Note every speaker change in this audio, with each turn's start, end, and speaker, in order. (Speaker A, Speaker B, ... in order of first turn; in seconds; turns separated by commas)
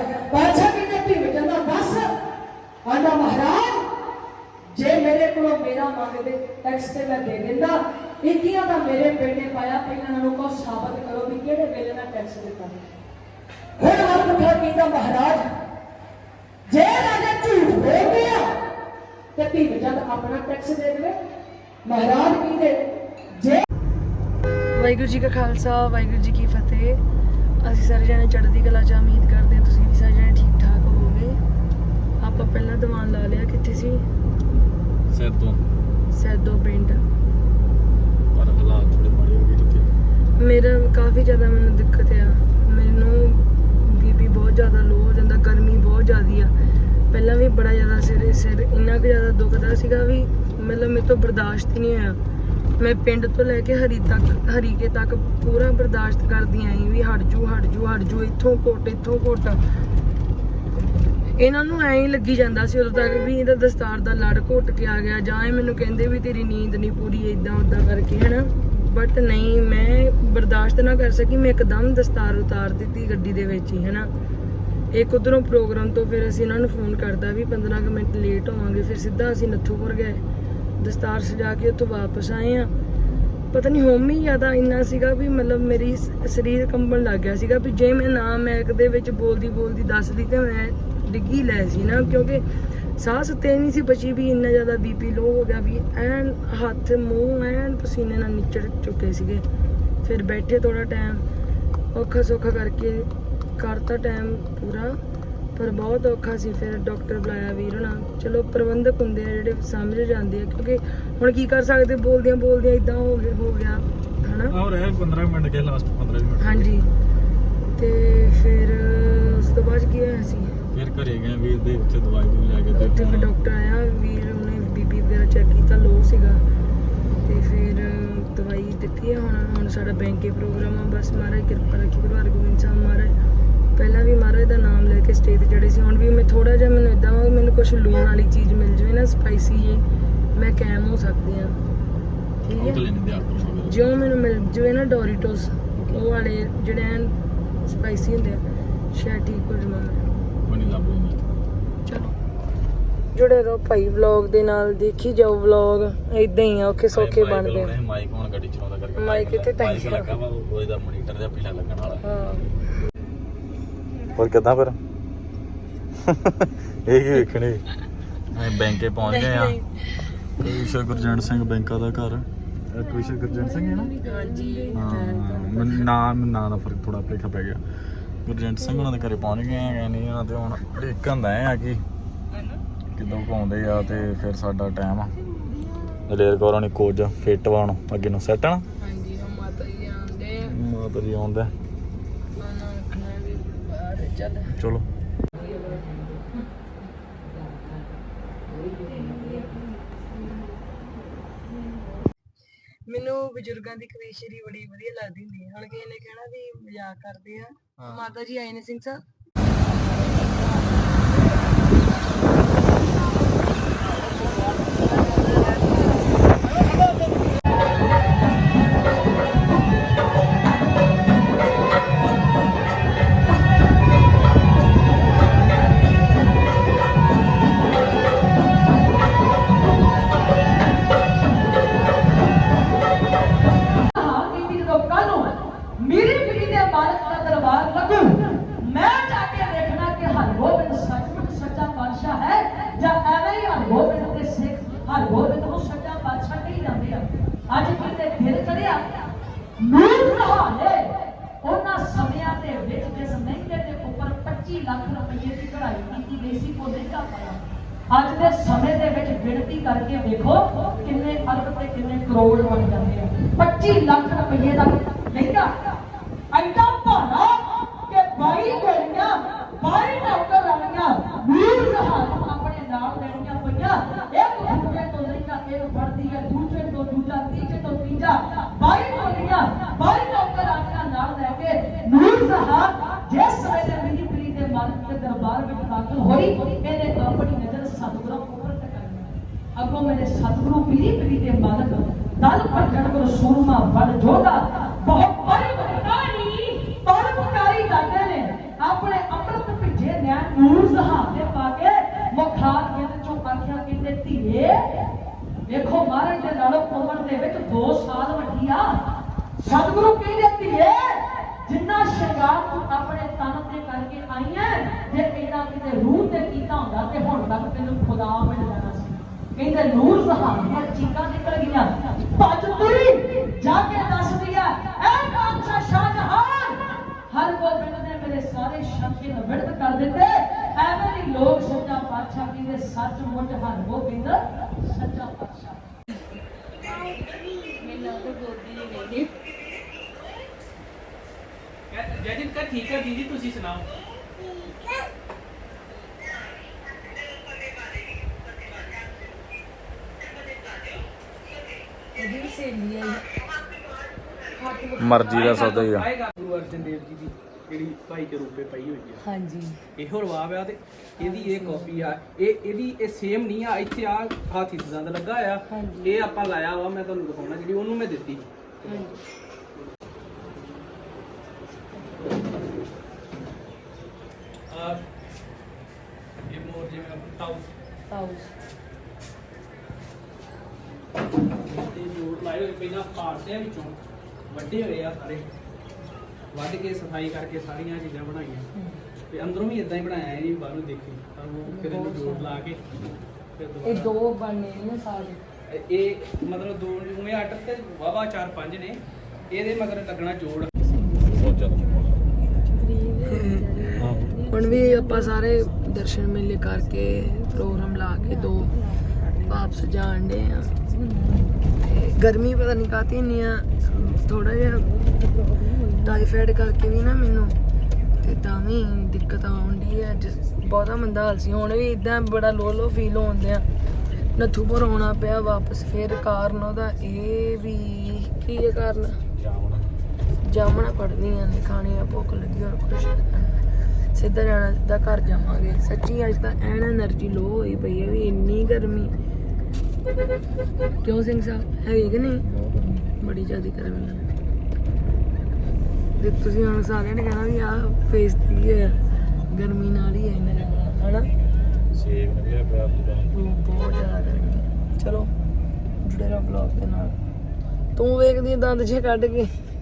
Speaker A: 0.5-2.0, Speaker A: 2.9-3.8, Speaker A: 4.8-5.5, Speaker A: 6.0-6.7, Speaker B: 7.7-8.3, Speaker B: 8.9-11.7, Speaker A: 12.1-12.7, Speaker B: 13.8-15.4, Speaker B: 16.7-18.4, Speaker B: 19.4-21.1, Speaker B: 21.9-22.8, Speaker A: 24.7-27.0, Speaker A: 27.6-31.4, Speaker A: 32.2-34.0, Speaker C: 35.1-35.6, Speaker A: 36.1-37.0, Speaker C: 38.3-39.9, Speaker A: 40.4-46.5, Speaker A: 47.1-52.2, Speaker A: 52.8-59.6, Speaker A: 61.4-74.1, Speaker A: 74.9-80.2, Speaker A: 80.8-82.7, Speaker A: 83.5-92.4, Speaker A: 93.0-99.4, Speaker A: 100.0-101.2, Speaker A: 101.9-105.0, Speaker A: 105.5-114.5, Speaker C: 114.5-116.7, Speaker A: 116.4-116.9, Speaker A: 117.8-120.5, Speaker C: 120.7-123.3, Speaker A: 122.7-126.4, Speaker A: 127.2-133.1, Speaker A: 133.8-141.6, Speaker A: 142.4-142.8, Speaker C: 142.5-143.9, Speaker A: 143.7-148.4, Speaker C: 145.7-146.0, Speaker A: 148.9-150.0, Speaker C: 150.5-151.3, Speaker A: 151.8-152.1, Speaker A: 153.1-157.7, Speaker C: 156.9-162.0, Speaker A: 158.9-160.1, Speaker A: 162.0-162.5, Speaker C: 164.1-164.8, Speaker C: 166.0-167.6, Speaker C: 168.3-169.6, Speaker A: 169.0-170.1, Speaker C: 170.4-173.9, Speaker B: 173.0-174.9, Speaker A: 174.0-175.9, Speaker C: 174.7-177.6, Speaker C: 178.2-181.8, Speaker C: 182.9-185.2, Speaker C: 186.1-188.7, Speaker A: 188.8-190.6, Speaker C: 190.4-191.5, Speaker A: 192.4-194.6, Speaker C: 194.6-194.8, Speaker A: 195.4-195.8, Speaker B: 197.3-197.8, Speaker B: 198.6-199.6, Speaker A: 202.9-209.0, Speaker A: 210.0-210.6, Speaker A: 214.6-216.0, Speaker B: 233.9-249.0, Speaker B: 249.6-265.6, Speaker B: 266.3-304.9, Speaker B: 305.4-308.8, Speaker B: 309.4-335.6, Speaker B: 337.6-339.1, Speaker D: 341.7-343.7, Speaker A: 352.0-353.0, Speaker A: 354.4-355.2, Speaker C: 354.8-355.9, Speaker D: 355.0-359.0, Speaker A: 359.0-359.6, Speaker D: 359.8-368.9, Speaker A: 361.0-361.7, Speaker A: 365.5-366.0, Speaker A: 368.6-369.0, Speaker D: 374.5-374.8, Speaker D: 376.3-377.5, Speaker A: 377.9-378.3, Speaker D: 381.4-383.8, Speaker D: 384.3-385.3, Speaker D: 386.3-388.5, Speaker D: 389.1-393.9, Speaker A: 391.5-392.4, Speaker A: 393.6-395.2, Speaker D: 395.5-400.5, Speaker B: 400.6-401.1, Speaker C: 401.1-402.1, Speaker B: 402.4-405.1, Speaker A: 403.0-403.4, Speaker C: 403.8-404.2, Speaker A: 404.3-408.5, Speaker B: 407.0-407.3, Speaker B: 408.1-409.3, Speaker A: 409.2-410.6, Speaker B: 410.7-411.4, Speaker A: 411.6-414.7, Speaker B: 414.8-415.9, Speaker A: 415.8-417.3, Speaker A: 418.0-423.4, Speaker A: 424.1-429.0, Speaker C: 429.1-429.7, Speaker A: 430.2-433.4, Speaker A: 433.9-438.9, Speaker A: 440.8-442.2, Speaker C: 441.8-442.9, Speaker A: 443.0-444.0, Speaker A: 446.0-448.8, Speaker A: 449.3-451.1, Speaker C: 451.7-453.1, Speaker A: 453.1-455.1, Speaker A: 455.8-457.0, Speaker A: 457.8-459.3